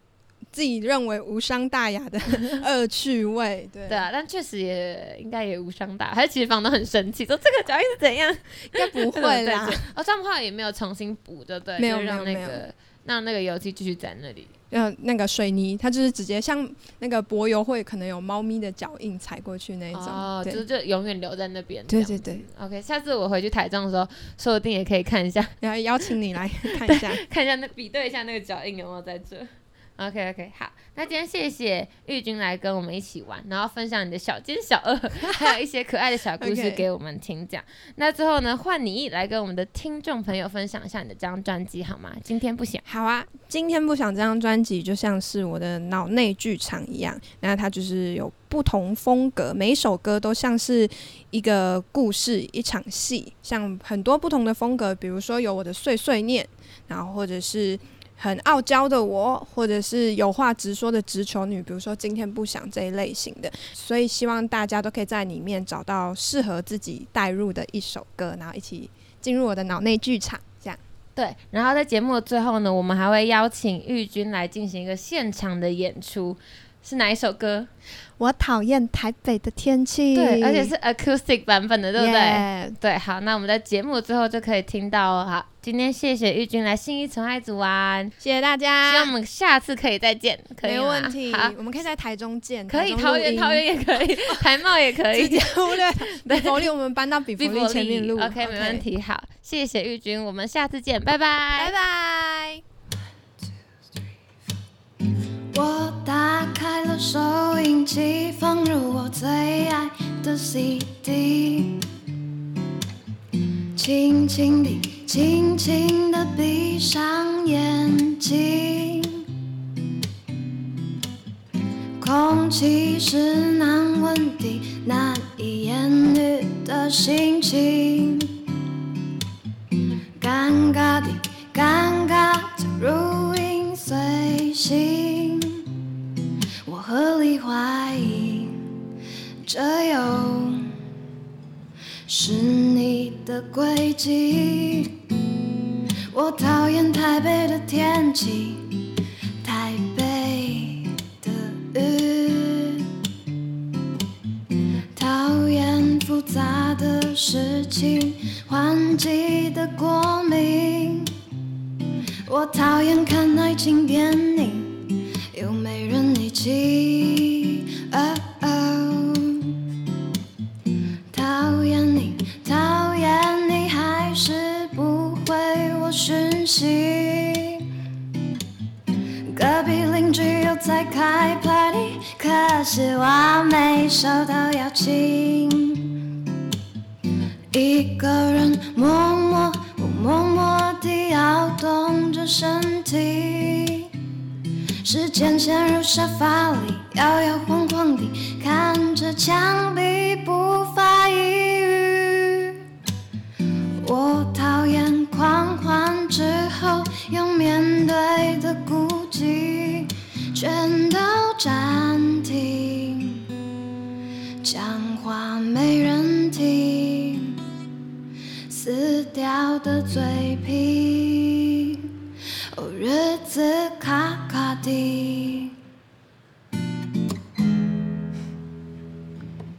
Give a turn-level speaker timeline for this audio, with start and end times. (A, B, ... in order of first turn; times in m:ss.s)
0:00.5-0:04.0 A
0:03.9-0:14.5 B
0:08.7-0:09.8 A
0:11.8-0:12.6 A
0:14.7-0:20.6 A
0:19.9-0:25.6 B
0:21.9-0:22.4 A
0:25.6-0:27.2 A
0:26.8-0:42.8 B
0:35.3-0:35.5 A
0:36.4-0:36.8 A
0:42.9-1:10.8 A
1:11.2-1:17.7 B
1:18.2-1:20.7 A
1:20.1-1:28.1 B
1:22.0-1:22.8 A
1:28.2-1:29.1 A
1:28.9-1:31.5 B
1:30.6-1:33.6 A
1:32.7-1:36.7 B
1:35.1-1:38.9 A
1:37.4-1:41.7 B
1:41.6-1:42.6 A
1:45.5-1:51.8 C
1:53.8-1:59.2 C
2:02.0-2:08.4 C
2:10.2-2:15.6 C
2:16.7-2:18.6 C
2:19.5-2:20.7 C
2:22.1-2:25.0 C
2:26.1-2:28.8 C
2:29.4-2:32.9 C
2:35.0-2:41.1 C
2:42.3-2:49.6 C
2:51.1-2:57.6 C
2:59.3-3:06.0 C
3:07.5-3:13.9 C
3:14.8-3:22.6 C
3:23.8-3:33.2 C
3:34.4-3:37.4 C
3:38.5-3:41.8 C
3:42.6-3:45.5 C